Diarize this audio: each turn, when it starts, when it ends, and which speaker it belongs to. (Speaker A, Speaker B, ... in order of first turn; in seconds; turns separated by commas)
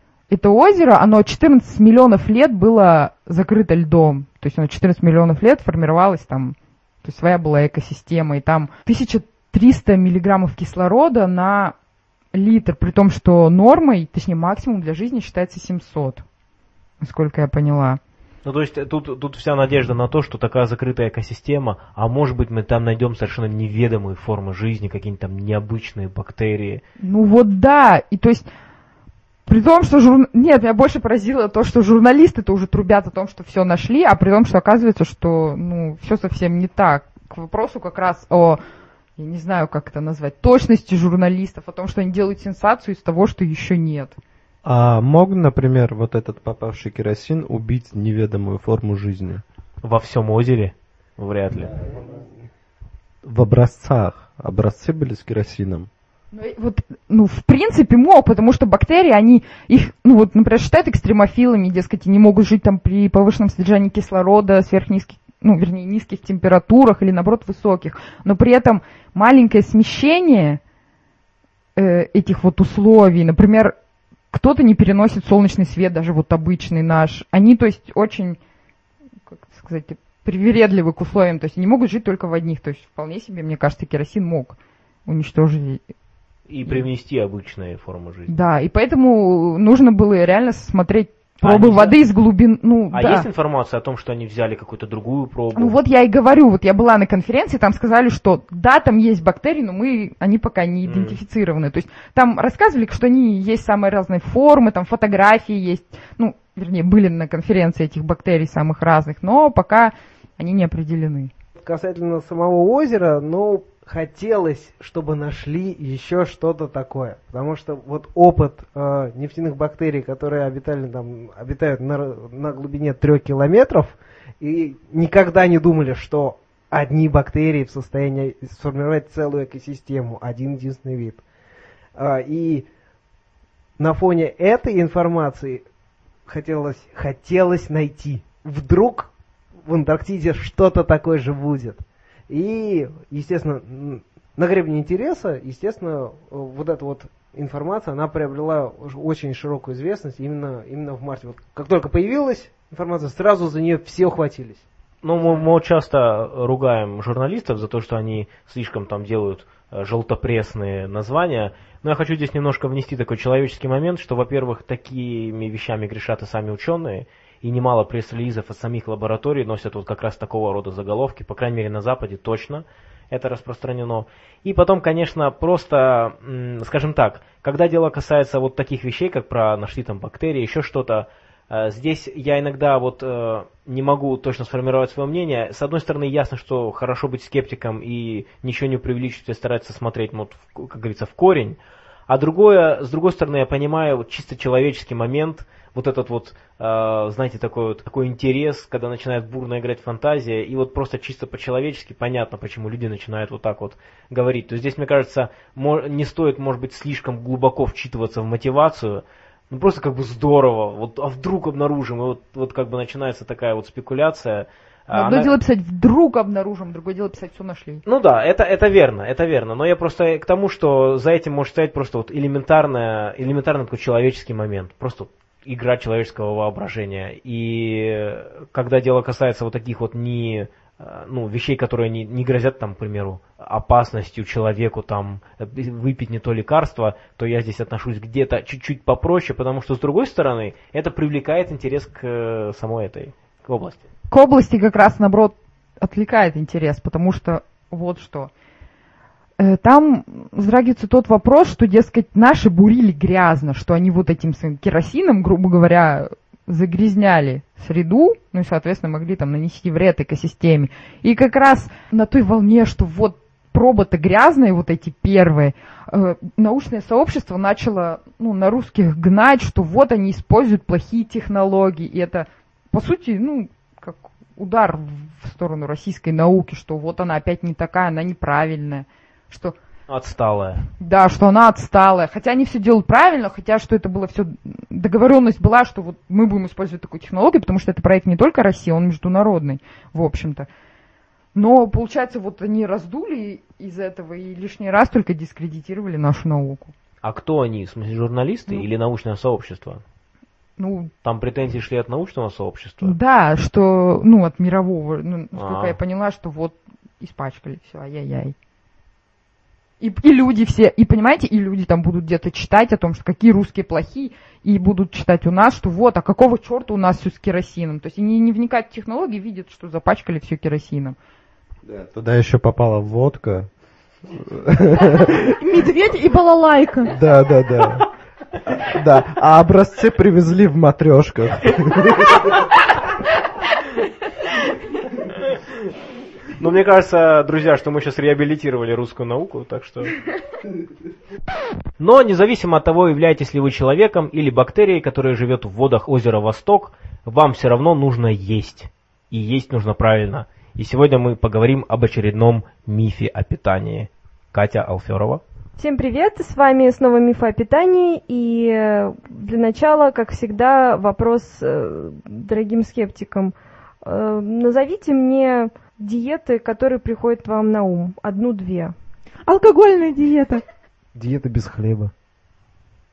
Speaker A: 0.3-11.7, Speaker A: 12.3-16.2, Speaker A: 17.0-18.0, Speaker B: 18.4-26.8, Speaker A: 27.0-28.5, Speaker A: 29.5-38.6, Speaker A: 39.2-44.2, Speaker C: 44.6-49.4, Speaker B: 49.8-51.8, Speaker C: 53.2-55.9, Speaker A: 56.3-70.6, Speaker A: 71.8-73.7, Speaker A: 74.3-78.4, Speaker A: 79.3-85.8, Speaker B: 86.5-88.3, Speaker A: 88.3-93.2, Speaker B: 91.4-92.0, Speaker B: 92.9-95.8, Speaker A: 95.5-111.3, Speaker B: 100.8-101.2, Speaker D: 111.6-131.2, Speaker D: 131.9-132.7, Speaker D: 133.8-135.6, Speaker D: 136.2-139.1, Speaker D: 139.7-154.6, Speaker B: 155.0-215.3, Speaker A: 214.9-217.8, Speaker B: 217.8-243.8, Speaker A: 244.1-248.3, Speaker A: 249.4-279.5, Speaker B: 279.9-280.6, Speaker A: 280.8-290.5, Speaker A: 291.3-296.7, Speaker B: 297.0-299.8, Speaker A: 300.6-300.9, Speaker B: 301.0-302.9, Speaker A: 302.8-308.3, Speaker B: 305.3-305.8, Speaker A: 309.8-320.9, Speaker C: 321.6-323.5, Speaker C: 324.1-325.3, Speaker E: 325.3-326.9, Speaker C: 326.9-327.8, Speaker C: 328.5-332.2, Speaker B: 336.4-339.9, Speaker B: 341.8-355.2, Speaker F: 355.6-368.7, Speaker E: 369.2-370.4, Speaker D: 370.9-371.9